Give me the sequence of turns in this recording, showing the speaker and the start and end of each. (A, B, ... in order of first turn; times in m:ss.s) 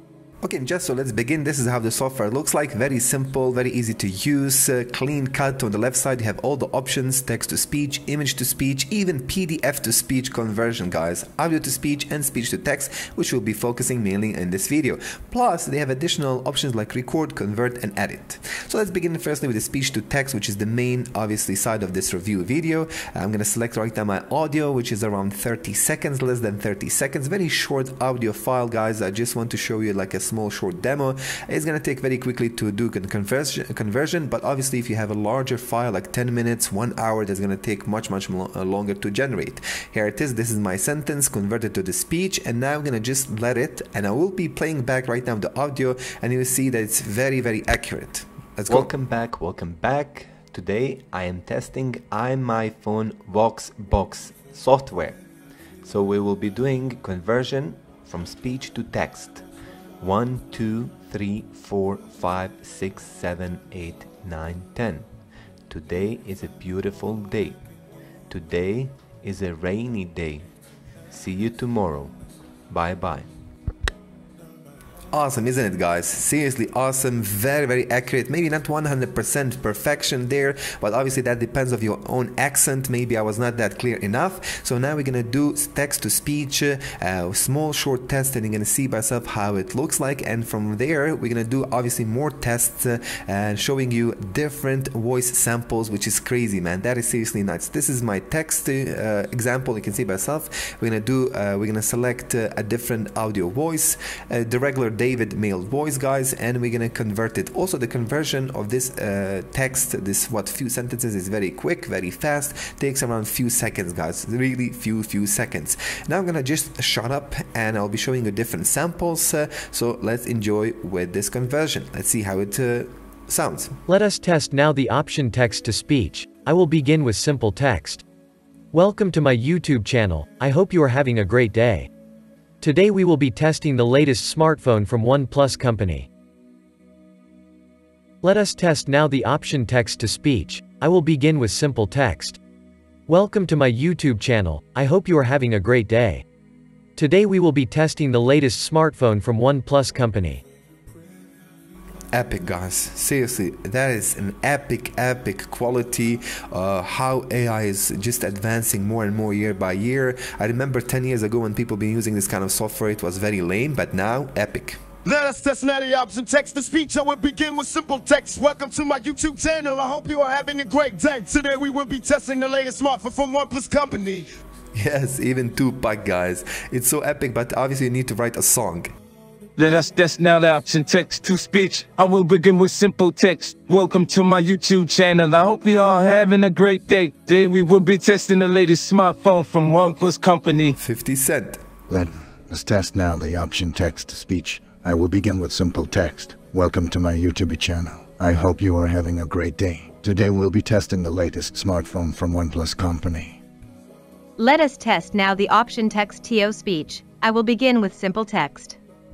0:00.4-0:48.9 A
0:48.8-0:55.2 B
0:55.9-0:59.4 B
1:00.0-1:05.0 B
1:05.7-1:07.6 B
1:08.3-1:10.4 B
1:11.1-1:12.1 B
1:12.7-1:13.2 B
1:15.1-2:03.8 A
2:03.9-2:08.0 C
2:08.7-2:11.9 C
2:12.6-2:16.1 C
2:18.2-2:22.4 C
2:23.1-2:26.2 C
2:27.0-2:30.4 C
2:32.1-2:44.8 A
2:45.1-2:54.2 D
2:54.8-2:58.9 A
2:59.6-3:10.8 E
3:10.8-3:11.6 A
3:11.9-3:23.4 F
3:24.4-3:28.8 G